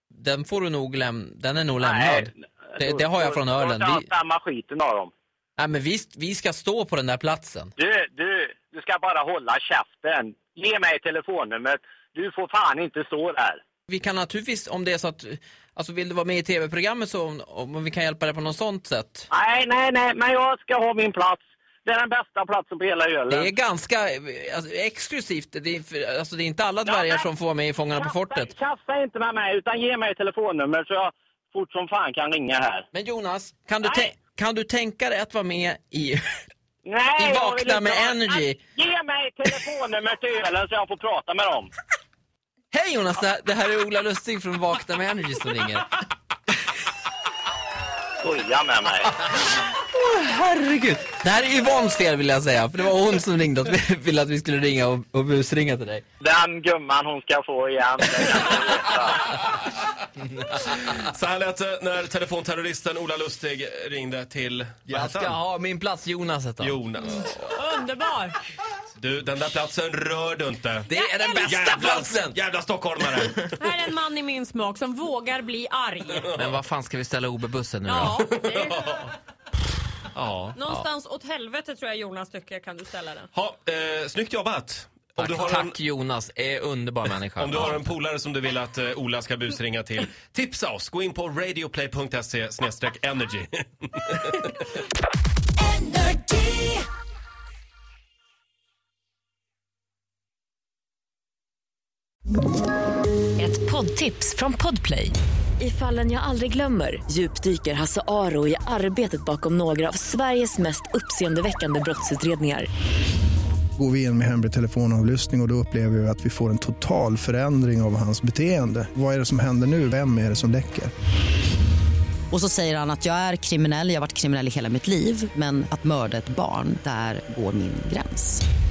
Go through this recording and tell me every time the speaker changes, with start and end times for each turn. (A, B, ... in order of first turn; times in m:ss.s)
0:00.1-0:04.1 A
0:01.8-0:05.1 B
0:05.6-0:07.7 A
0:07.8-0:13.6 B
0:13.9-0:19.3 A
0:19.3-0:23.5 B
0:23.3-0:28.5 A
0:26.8-0:27.3 B
0:27.9-0:32.8 B
0:32.9-0:36.2 A
0:33.8-0:34.1 B
0:36.8-0:41.7 B
0:37.2-0:38.6 A
0:42.7-0:45.9 A
0:48.2-0:49.1 B
0:49.9-0:56.0 A
0:56.2-0:59.2 B
1:00.6-1:05.4 C
1:04.9-1:06.8 A
1:06.6-1:07.4 C
1:07.0-1:08.4 D
1:09.0-1:10.9 C
1:10.9-1:12.4 A
1:11.0-1:11.6 D
1:11.4-1:13.6 C
1:13.1-1:13.4 A
1:13.6-1:16.3 D
1:16.2-1:16.6 C
1:16.3-1:18.2 A
1:17.8-1:19.1 D
1:18.0-1:19.1 C
1:20.1-1:20.6 C
1:20.5-1:23.3 D
1:23.3-1:25.8 C
1:25.2-1:27.9 A
1:27.4-1:34.5 C
1:35.8-1:36.8 E
1:43.4-1:52.7 E
1:53.8-2:00.9 F
2:02.3-2:08.4 G